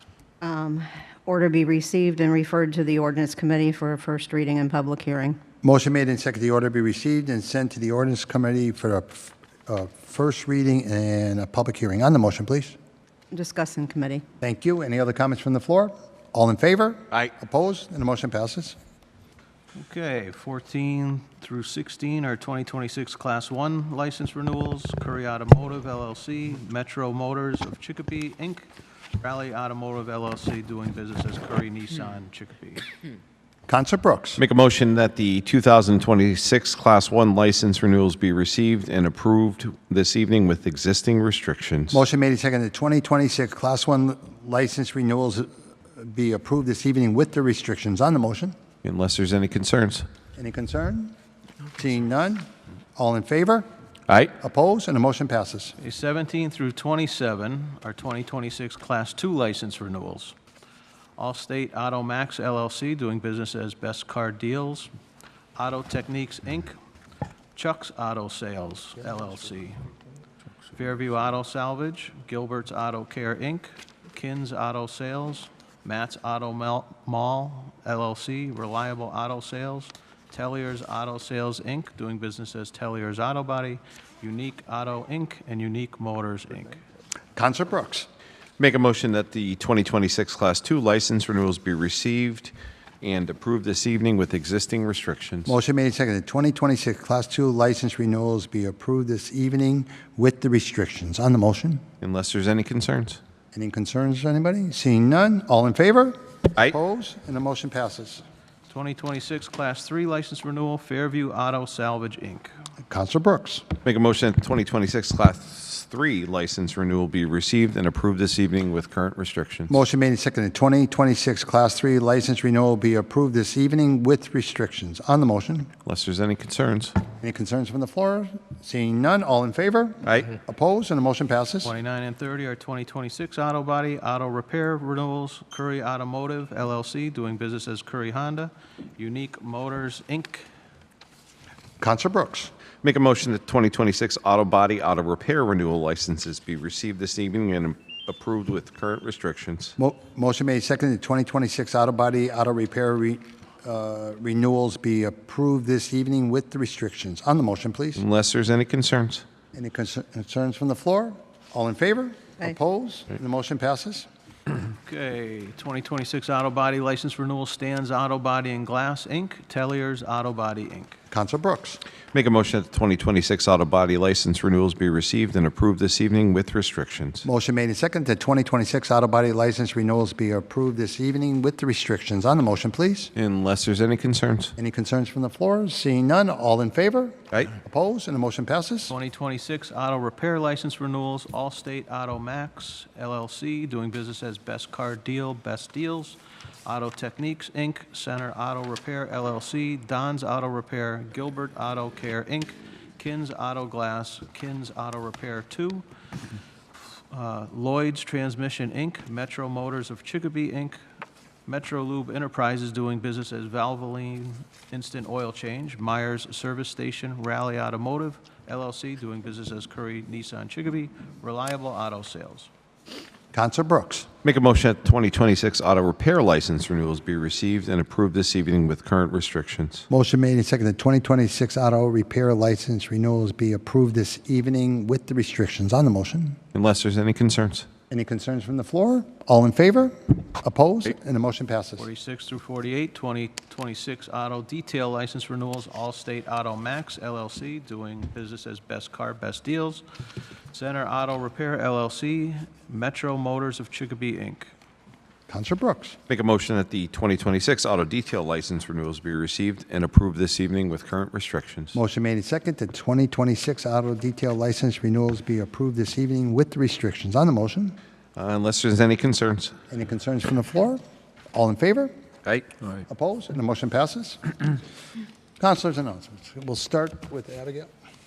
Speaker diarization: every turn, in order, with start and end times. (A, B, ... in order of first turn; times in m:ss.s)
0:00.4-0:05.4 A
0:05.6-0:12.8 B
0:13.3-0:14.2 A
0:14.4-0:18.8 B
0:19.8-0:32.9 C
0:33.7-0:34.4 B
0:34.4-0:42.0 D
0:41.9-0:48.6 B
0:48.8-0:50.1 D
0:50.4-0:51.2 B
0:51.8-0:53.7 B
0:54.4-0:55.8 B
0:55.8-1:00.4 C
1:01.2-1:04.9 C
1:05.6-1:06.8 C
1:07.6-1:09.8 C
1:10.7-1:26.8 C
1:27.4-1:28.1 B
1:28.6-1:35.6 D
1:35.5-1:41.8 B
1:42.0-1:43.2 D
1:43.5-1:48.2 B
1:48.7-1:52.5 C
1:52.9-1:53.6 B
1:53.8-1:59.8 D
1:59.7-2:05.7 B
2:05.8-2:07.0 D
2:07.2-2:11.7 B
2:11.6-2:20.5 C
2:21.8-2:22.5 B
2:22.8-2:29.8 D
2:29.8-2:38.0 B
2:38.0-2:39.2 D
2:39.5-2:44.1 B
2:44.8-2:51.0 C
2:51.1-2:51.8 B
2:52.1-2:57.3 D
2:57.2-3:03.1 B
3:03.2-3:04.5 D
3:04.6-3:08.9 B
3:08.9-3:25.8 C
3:26.8-3:30.8 C
3:31.5-3:42.5 C
3:43.3-3:44.1 B
3:44.2-3:49.9 D
3:49.9-3:56.4 B
3:56.5-3:57.7 D
3:57.9-4:01.9 B
4:01.8-4:09.8 C
4:10.5-4:14.5 C
4:15.3-4:16.0 B
4:16.1-4:21.8 D
4:21.7-4:27.8 B
4:28.2-4:29.5 D
4:29.7-4:30.8 B
4:31.3-4:31.9 B
4:32.9-4:34.2 B
4:35.4-4:37.7 B